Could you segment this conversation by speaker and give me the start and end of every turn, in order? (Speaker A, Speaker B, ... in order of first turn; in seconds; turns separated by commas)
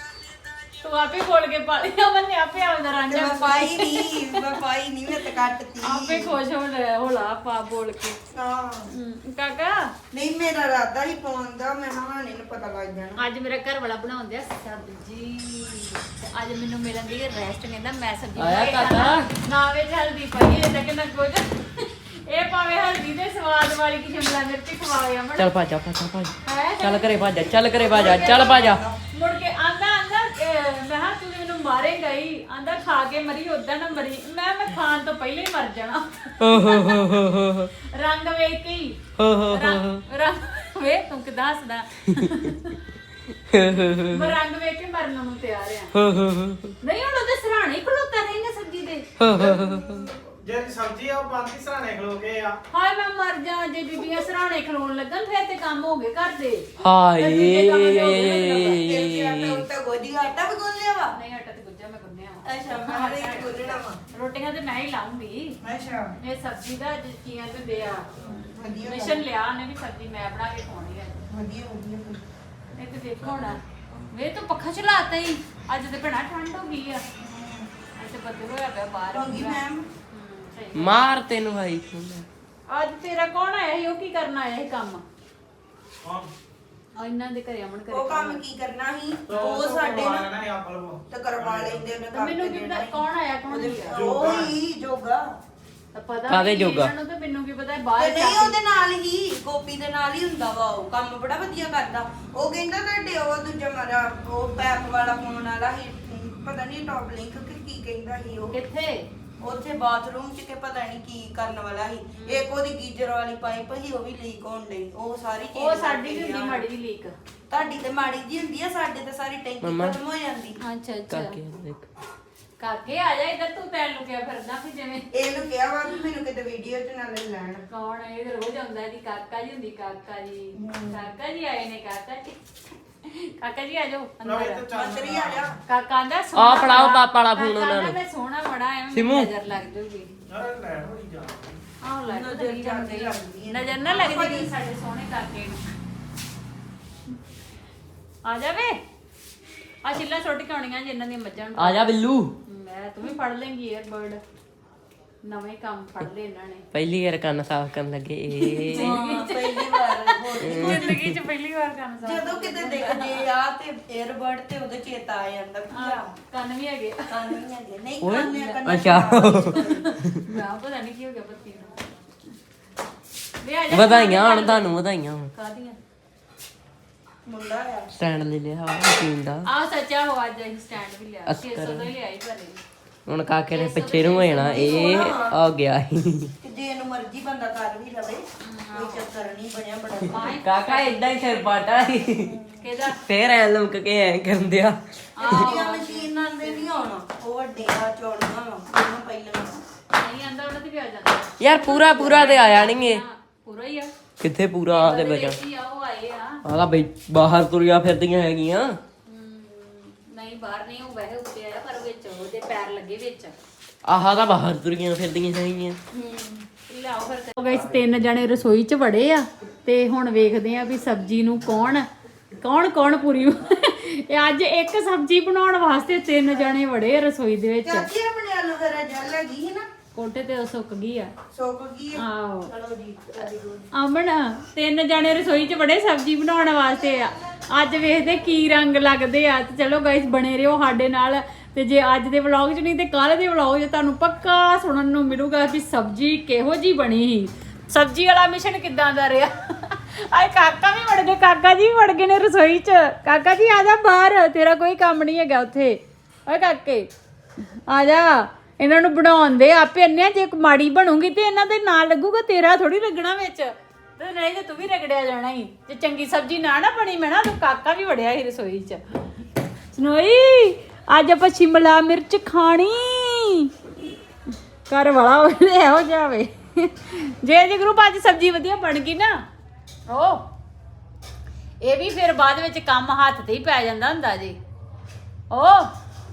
Speaker A: 0.8-4.5, Speaker B: 3.1-6.4, Speaker A: 5.2-8.2, Speaker B: 8.3-8.9, Speaker A: 8.9-9.9, Speaker B: 10.1-13.2, Speaker A: 13.2-25.5, Speaker C: 18.4-19.3, Speaker C: 25.4-28.8, Speaker A: 26.4-27.2, Speaker A: 27.7-37.2, Speaker B: 27.8-29.0, Speaker C: 36.4-37.7, Speaker A: 37.8-42.8, Speaker C: 39.2-40.0, Speaker C: 43.5-44.3, Speaker A: 44.1-45.9, Speaker C: 45.9-46.8, Speaker A: 46.8-49.1, Speaker C: 49.2-50.1, Speaker D: 49.3-52.6, Speaker A: 52.7-58.9, Speaker C: 56.8-59.6, Speaker B: 58.8-61.1, Speaker A: 61.1-65.5, Speaker B: 62.4-64.0, Speaker B: 65.6-66.1, Speaker A: 66.2-71.2, Speaker B: 68.3-69.2, Speaker B: 71.3-72.2, Speaker A: 72.7-77.0, Speaker B: 77.2-77.7, Speaker A: 78.0-81.0, Speaker B: 79.1-79.9, Speaker C: 80.7-82.3, Speaker A: 82.7-85.0, Speaker D: 86.0-86.3, Speaker A: 86.9-88.4, Speaker B: 87.9-90.3, Speaker D: 89.3-91.9, Speaker B: 91.1-95.2, Speaker A: 92.1-94.0, Speaker D: 93.9-94.6, Speaker A: 95.9-98.6, Speaker C: 96.3-96.9, Speaker B: 98.0-108.5, Speaker A: 108.5-109.0, Speaker B: 109.4-116.7, Speaker A: 112.1-112.5, Speaker A: 115.5-117.1, Speaker B: 117.5-120.6, Speaker C: 119.6-120.0, Speaker A: 120.6-121.4, Speaker C: 121.1-121.8, Speaker A: 122.6-125.1, Speaker B: 125.1-127.6, Speaker A: 127.7-132.4, Speaker B: 130.6-131.0, Speaker A: 133.0-134.7, Speaker D: 134.2-135.4, Speaker B: 134.7-135.6, Speaker A: 135.7-140.1, Speaker C: 136.3-138.0, Speaker C: 138.9-139.3, Speaker D: 140.3-141.5, Speaker A: 141.8-145.6, Speaker B: 142.0-144.5, Speaker A: 148.2-148.8, Speaker A: 149.8-151.9, Speaker C: 151.6-152.3, Speaker A: 152.4-154.2, Speaker A: 155.2-156.7, Speaker C: 156.7-159.0, Speaker A: 158.3-163.2, Speaker B: 158.8-160.9, Speaker C: 160.4-161.2, Speaker B: 162.0-166.1, Speaker A: 165.7-167.3, Speaker B: 167.1-169.9, Speaker C: 168.0-170.2, Speaker A: 168.0-168.6, Speaker A: 169.4-171.8, Speaker A: 173.4-174.7, Speaker C: 173.7-175.3, Speaker A: 175.3-175.8, Speaker B: 177.2-177.9, Speaker C: 177.9-179.4, Speaker A: 179.4-182.6, Speaker C: 181.3-181.9, Speaker C: 183.1-186.3, Speaker A: 183.5-185.2, Speaker B: 184.5-185.4, Speaker B: 186.4-190.3, Speaker A: 188.4-189.1, Speaker A: 190.1-191.5, Speaker C: 190.3-192.3, Speaker B: 192.2-192.6, Speaker A: 192.6-193.0, Speaker C: 192.9-194.8, Speaker A: 195.2-196.7, Speaker B: 195.2-199.6, Speaker A: 199.9-203.9, Speaker C: 201.4-203.0, Speaker C: 204.2-205.4, Speaker A: 204.7-206.4, Speaker C: 206.4-208.8, Speaker A: 209.1-213.3, Speaker C: 213.8-215.8, Speaker A: 215.9-227.9, Speaker B: 227.6-229.7, Speaker A: 229.9-231.1, Speaker B: 231.3-233.7, Speaker A: 231.9-232.5, Speaker A: 233.7-256.9, Speaker A: 257.7-268.8, Speaker A: 269.7-273.5, Speaker A: 274.7-279.2, Speaker A: 279.9-280.2, Speaker A: 281.6-284.4, Speaker A: 285.3-285.7